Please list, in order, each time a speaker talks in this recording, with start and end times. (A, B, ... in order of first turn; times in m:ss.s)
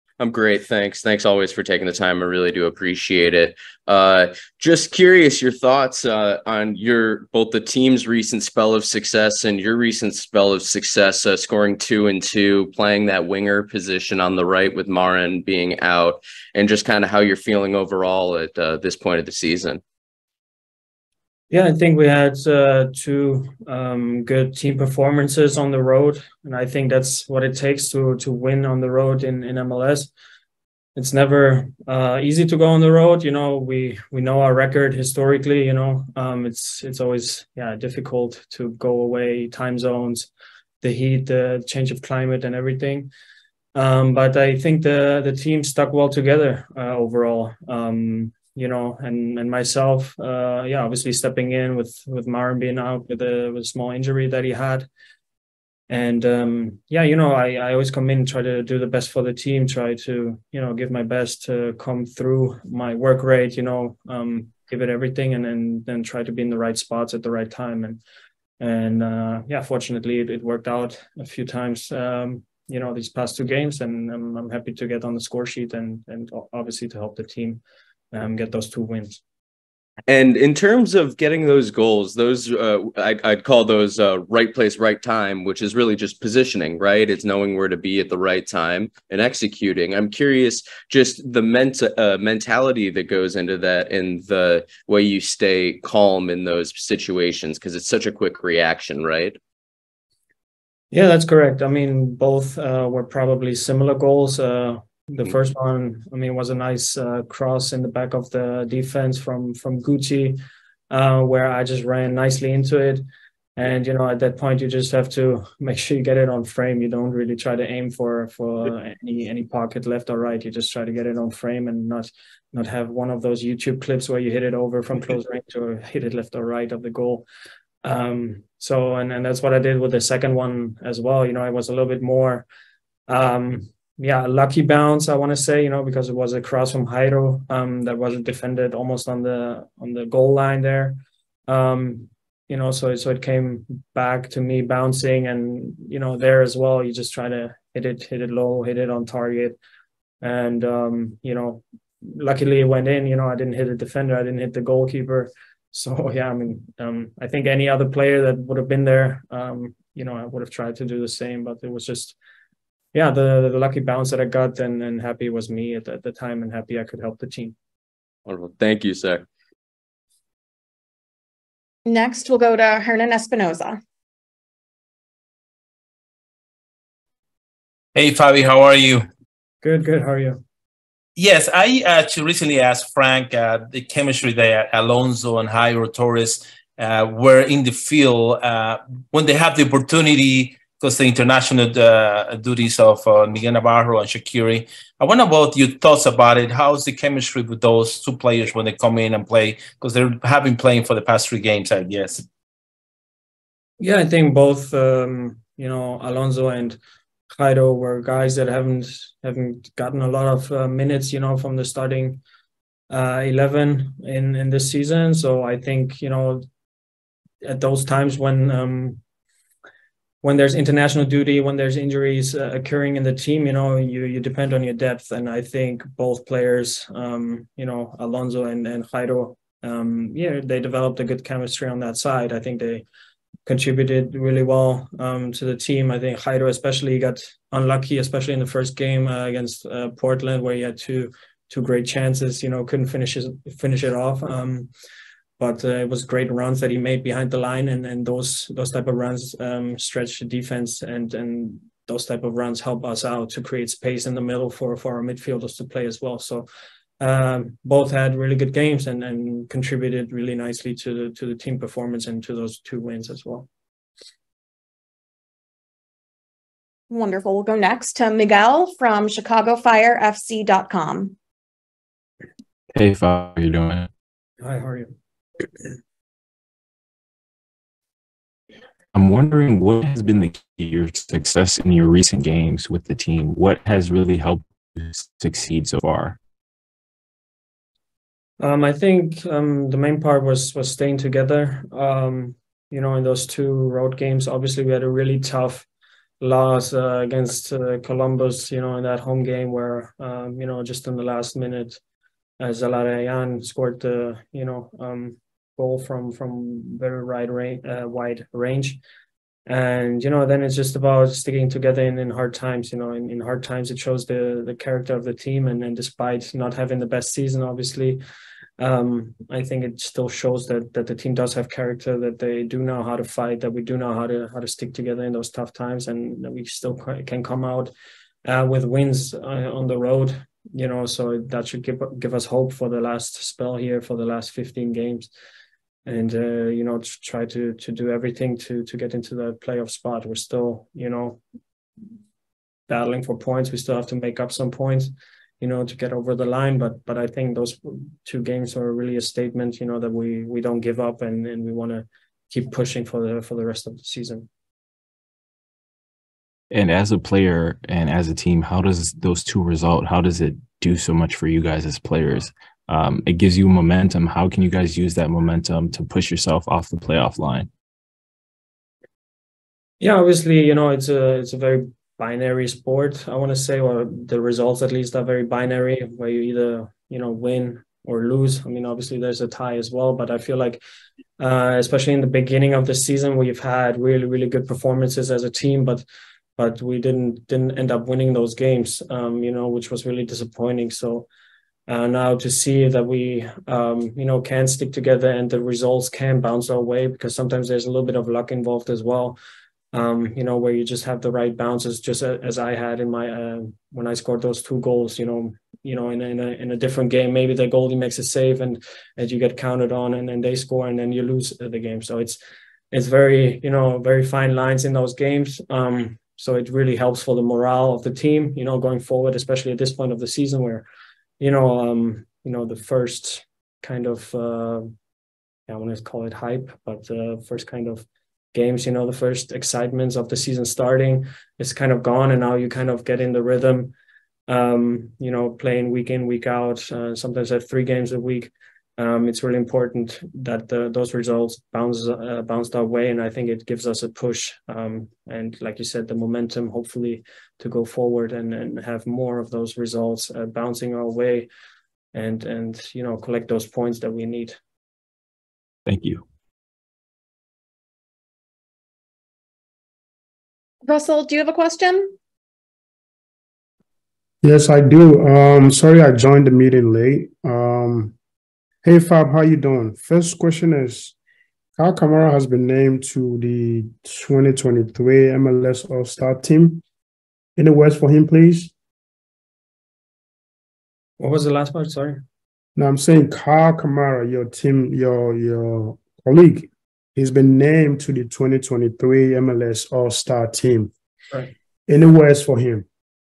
0:00.2-0:19.8 A
0:21.5-0:30.1 B
0:31.0-0:40.3 B
0:40.8-0:43.1 B
0:43.8-0:54.9 B
0:55.9-1:08.0 B
1:08.6-1:17.6 B
1:18.1-1:19.2 B
1:20.1-1:39.4 A
1:40.9-1:50.4 B
1:50.9-1:53.0 B
1:53.6-2:07.2 B
2:07.8-2:12.4 B
2:13.1-2:29.6 B
2:30.2-2:42.2 B
2:42.9-2:47.6 B
2:48.3-2:49.2 A
2:51.8-2:53.8 C
2:58.0-2:59.0 D
2:59.6-3:00.4 B
3:01.2-3:22.2 D
3:23.8-3:26.8 B
3:27.3-3:32.2 B
3:32.9-3:36.4 B
3:37.4-3:39.0 B
3:40.2-3:52.8 B
3:53.5-4:04.7 B
4:05.4-4:16.5 B
4:17.0-4:23.5 B
4:26.9-4:31.2 C
4:32.7-4:33.9 E
4:34.4-4:34.9 B
4:38.9-4:46.2 E
4:48.4-4:55.7 B
4:56.2-5:01.8 B
5:02.4-5:08.8 B
5:09.5-5:18.0 B
5:18.6-5:27.7 B
5:28.2-5:35.1 B
5:35.8-5:41.2 B
5:42.7-5:54.3 B
5:56.5-6:07.5 E
6:09.8-6:20.6 B
6:21.2-6:25.8 B
6:26.4-6:31.1 B
6:31.7-6:39.2 B
6:39.7-6:52.2 B
6:52.7-7:00.6 B
7:01.2-7:04.7 B
7:05.5-7:13.7 B
7:14.3-7:31.3 B
7:31.9-7:34.4 B
7:35.7-7:36.0 E
7:40.6-7:42.0 C
7:44.2-7:48.0 F
7:48.6-7:51.0 F
7:51.6-7:56.6 F
7:57.4-7:58.5 F
8:01.0-8:02.0 B
8:02.6-8:10.7 F
8:11.7-8:12.7 F